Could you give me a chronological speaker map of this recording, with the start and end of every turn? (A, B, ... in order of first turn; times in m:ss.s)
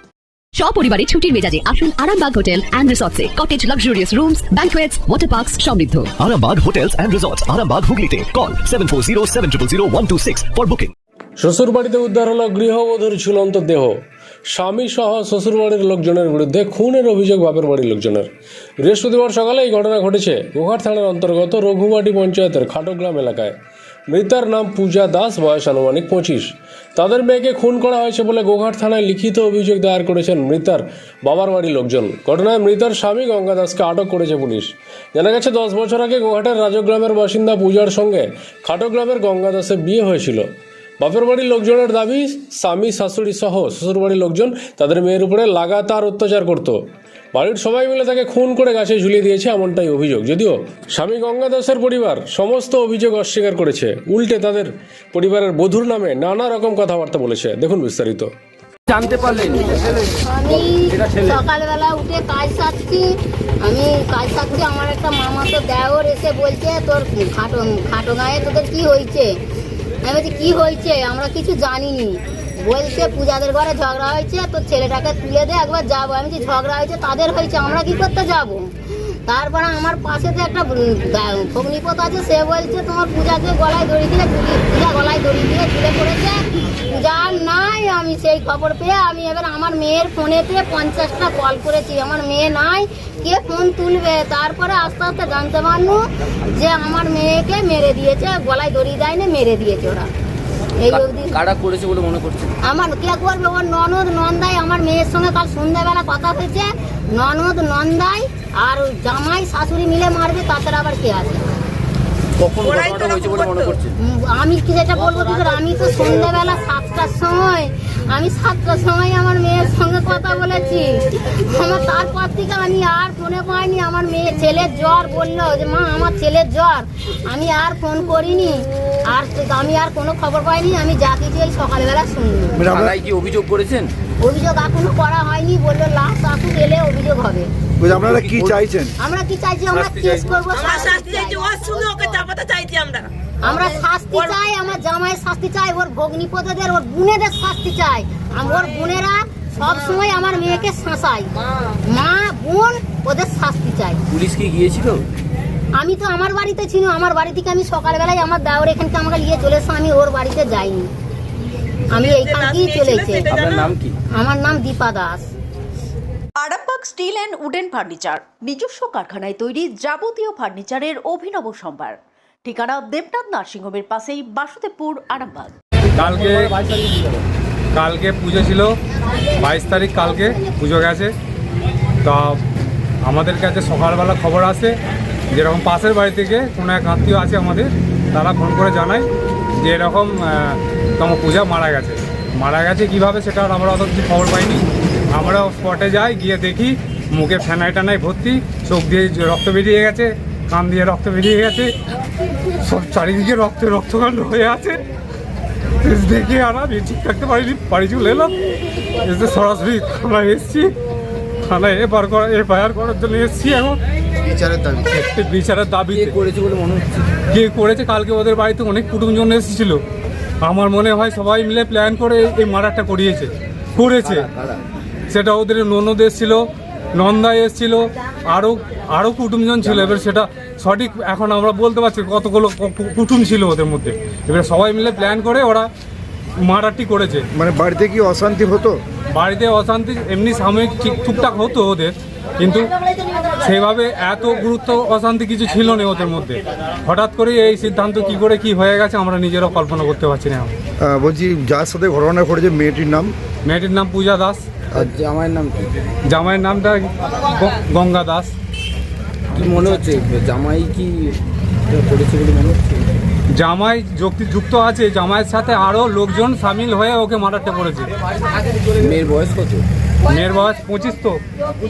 0:00.6-0:06.2 A
0:06.2-0:10.9 B
0:11.4-0:23.6 C
0:24.1-0:46.8 C
0:47.3-0:58.3 C
0:58.9-1:00.0 D
0:59.4-1:03.0 E
1:00.9-1:01.4 D
1:03.6-1:09.3 E
1:10.0-1:18.7 E
1:19.3-1:36.0 E
1:36.6-1:40.1 E
1:40.8-1:41.4 E
1:40.9-1:42.5 D
1:42.7-1:51.5 E
1:52.4-1:54.0 D
1:52.6-1:53.8 F
1:54.0-2:12.6 E
2:12.6-2:12.9 G
2:12.7-2:13.9 D
2:14.2-2:17.5 E
2:17.8-2:18.9 G
2:17.9-2:18.6 D
2:19.0-2:21.6 E
2:19.8-2:20.3 D
2:20.5-2:24.4 F
2:23.4-2:31.3 E
2:31.8-2:34.0 E
2:34.1-2:35.0 D
2:35.8-2:40.9 E
2:41.9-2:43.4 E
2:42.0-2:43.7 F
2:43.3-2:44.0 D
2:44.2-2:45.3 E
2:46.4-2:55.5 H
2:56.0-2:56.6 I
2:57.7-2:58.7 I
2:59.1-3:00.5 E
2:59.4-3:01.1 I
3:02.0-3:02.4 I
3:03.0-3:04.7 I
3:05.3-3:09.1 I
3:09.6-3:21.7 I
3:22.6-3:24.8 I
3:25.8-3:28.3 I
3:29.0-3:30.7 I
3:31.5-3:33.8 I
3:34.3-3:34.8 D
3:34.9-3:36.2 I
3:35.9-3:37.0 D
3:37.3-3:39.8 I
3:40.4-3:44.3 I
3:44.0-3:44.6 D
3:45.1-3:46.4 I
3:47.0-3:55.6 I
3:49.6-3:49.9 G
3:56.5-3:57.2 I
3:57.3-3:58.8 G
3:59.1-4:02.7 I
4:03.4-4:10.5 I
4:10.8-4:13.1 G
4:13.4-4:14.4 I
4:14.8-4:15.7 D
4:16.1-4:18.3 I
4:19.3-4:21.1 D
4:21.7-4:22.8 D
4:23.4-4:27.9 I
4:28.8-4:29.6 D
4:30.1-4:31.2 I